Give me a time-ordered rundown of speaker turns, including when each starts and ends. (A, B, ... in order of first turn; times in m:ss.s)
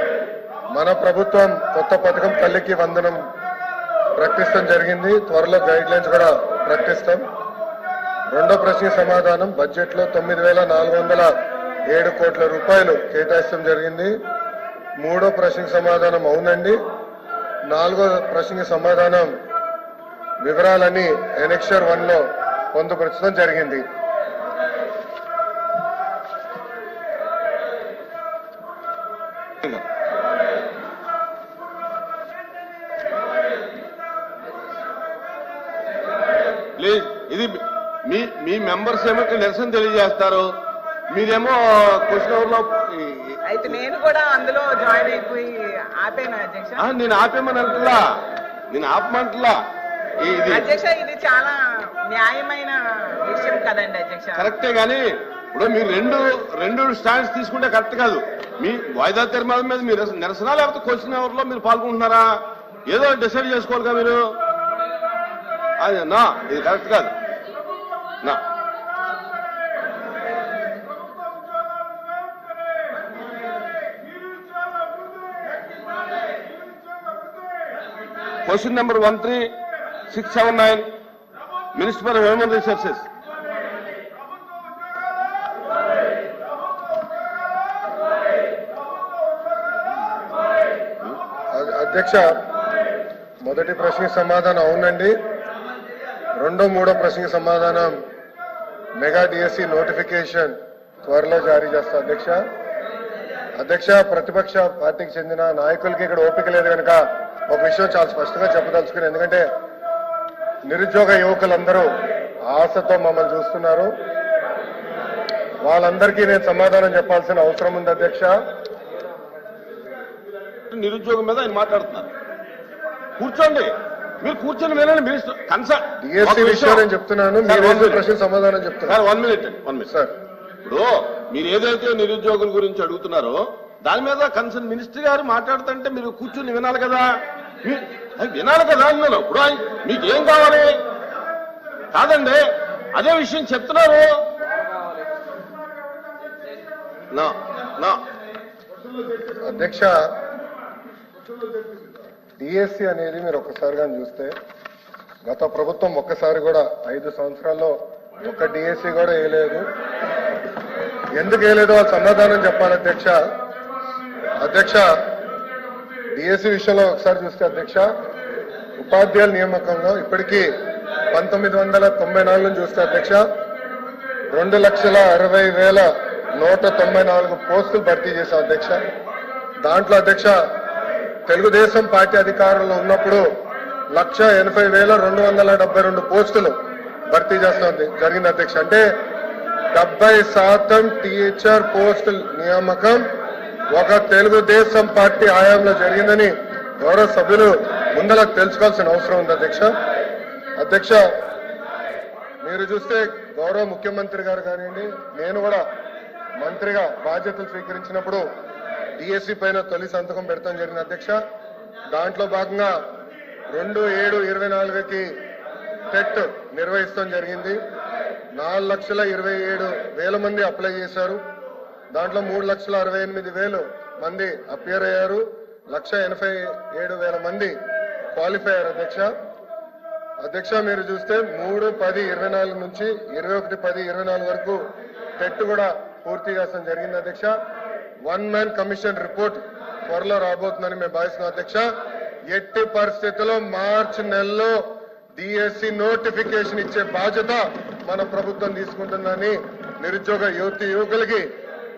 0:00.7-0:03.2 A
0:04.2-0:07.2 A
0:08.3-0:11.3 A
0:11.9-0:14.1 A
0:15.0-0:16.8 A
0:17.7-0:19.3 A
0:20.4-0:23.8 A
0:36.8-0:40.5 B
0:41.1-0:43.8 B
0:43.5-0:46.9 C
0:46.8-0:48.0 B
0:48.7-0:49.6 B
0:50.2-0:50.7 B
0:50.5-0:54.5 C
0:54.4-1:02.3 B
1:02.9-1:04.2 B
1:05.8-1:07.1 B
1:18.4-1:19.5 B
1:20.1-1:20.9 B
1:21.7-1:23.1 B
1:31.5-1:32.4 A
1:33.4-1:35.2 A
1:36.4-1:38.0 A
1:39.0-1:42.4 A
1:43.6-1:49.5 A
1:50.7-1:51.9 A
1:52.5-1:53.9 A
1:55.6-1:58.3 A
2:00.7-2:02.1 B
2:03.2-2:06.9 B
2:06.0-2:09.0 A
2:07.4-2:08.0 B
2:08.9-2:09.9 B
2:10.6-2:17.1 B
2:17.6-2:20.7 B
2:21.9-2:24.1 B
2:27.1-2:28.0 B
2:29.5-2:30.0 A
2:32.4-2:34.3 A
2:35.2-2:39.7 A
2:41.2-2:43.2 A
2:44.4-2:44.9 A
2:46.2-2:47.9 A
2:48.8-2:50.5 A
2:51.1-2:53.2 A
2:54.3-2:58.8 A
2:59.6-3:00.4 A
3:01.3-3:03.2 A
3:03.9-3:06.5 A
3:07.1-3:08.8 A
3:09.7-3:13.0 A
3:13.7-3:19.7 A
3:20.6-3:21.1 A
3:22.4-3:25.6 A
3:26.4-3:28.2 A
3:29.0-3:31.2 A
3:31.9-3:32.7 A
3:33.5-3:35.1 A
3:35.9-3:37.6 A
3:38.4-3:41.2 A
3:41.9-3:47.6 A
3:48.1-3:49.1 A
3:50.2-3:54.6 A
3:55.2-3:57.3 A
3:58.0-4:01.6 A
4:02.3-4:04.6 A
4:05.2-4:11.3 A